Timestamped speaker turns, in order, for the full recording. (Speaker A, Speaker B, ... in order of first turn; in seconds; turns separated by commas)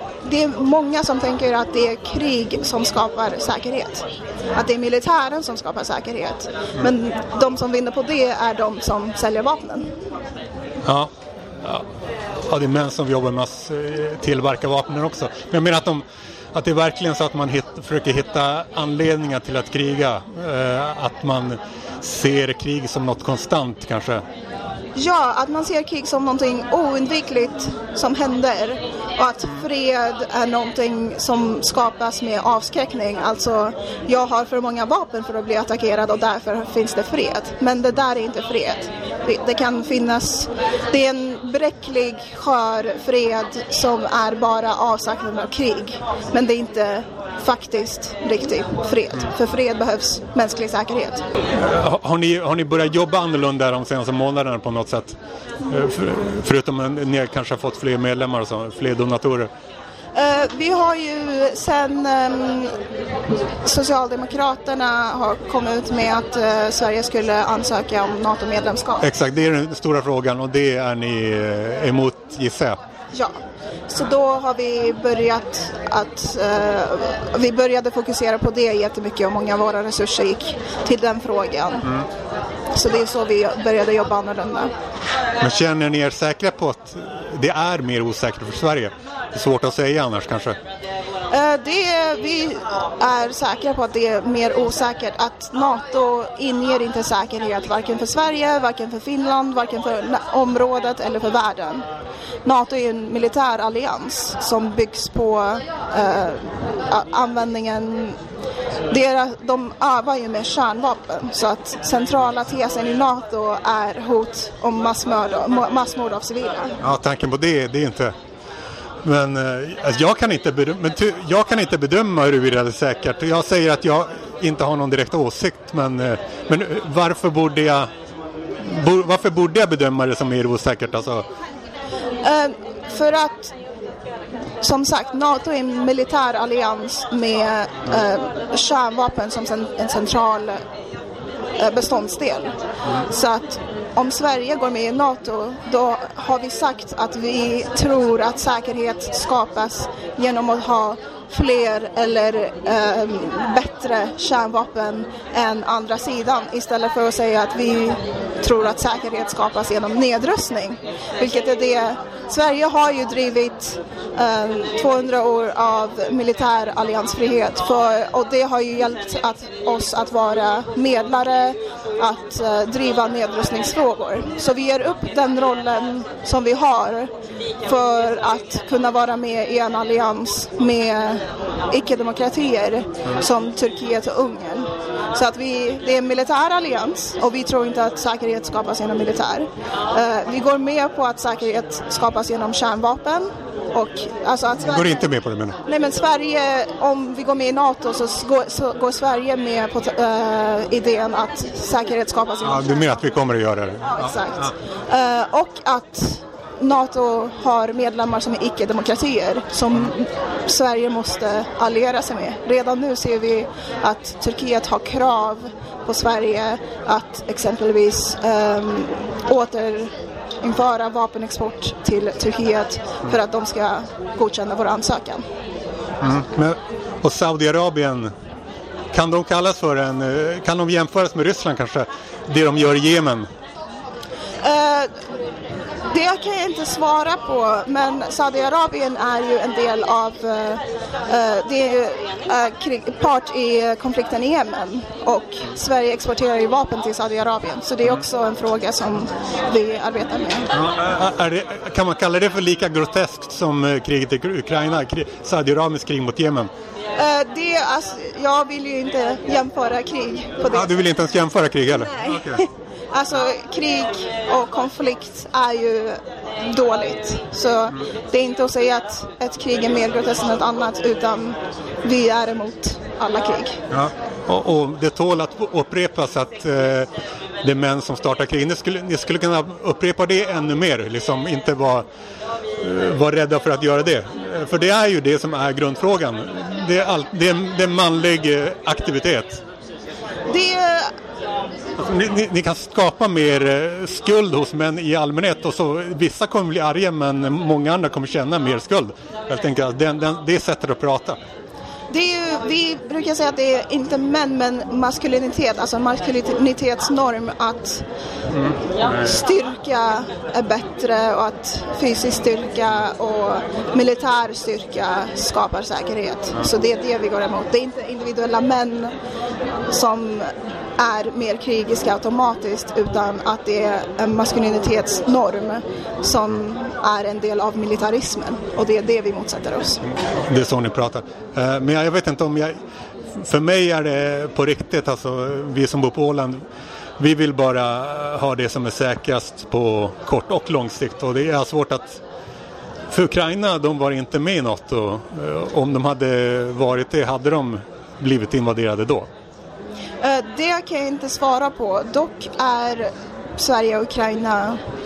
Speaker A: 0.2-9.9, Speaker B: 10.8-11.1, Speaker B: 12.5-24.2, Speaker A: 25.0-51.3, Speaker B: 51.6-59.5, Speaker A: 60.1-62.7, Speaker A: 63.6-69.1, Speaker B: 69.0-72.8, Speaker A: 73.9-82.0, Speaker A: 82.7-84.7, Speaker B: 85.4-90.6, Speaker A: 91.3-101.9, Speaker A: 102.5-108.2, Speaker A: 108.9-116.8, Speaker B: 116.8-118.1, Speaker B: 119.0-127.9, Speaker B: 128.6-131.2, Speaker A: 132.2-133.6, Speaker A: 134.6-140.6, Speaker A: 141.6-177.1, Speaker A: 177.6-195.1, Speaker B: 194.6-195.6, Speaker A: 195.7-202.8, Speaker B: 202.4-204.5, Speaker A: 203.9-225.2, Speaker B: 226.0-228.1, Speaker B: 228.9-233.3, Speaker A: 234.4-235.0, Speaker A: 235.9-250.5, Speaker B: 250.5-256.5, Speaker A: 256.9-260.9, Speaker B: 260.5-262.4, Speaker A: 261.7-273.6, Speaker B: 273.7-276.9, Speaker B: 277.4-281.9, Speaker B: 282.6-289.4, Speaker A: 290.3-290.9, Speaker B: 291.8-301.2, Speaker A: 301.9-307.8, Speaker B: 308.3-309.1, Speaker A: 308.8-318.9, Speaker A: 319.7-329.8, Speaker B: 330.2-332.6, Speaker B: 333.1-336.4, Speaker B: 337.0-342.0, Speaker B: 342.9-349.1, Speaker A: 350.0-354.6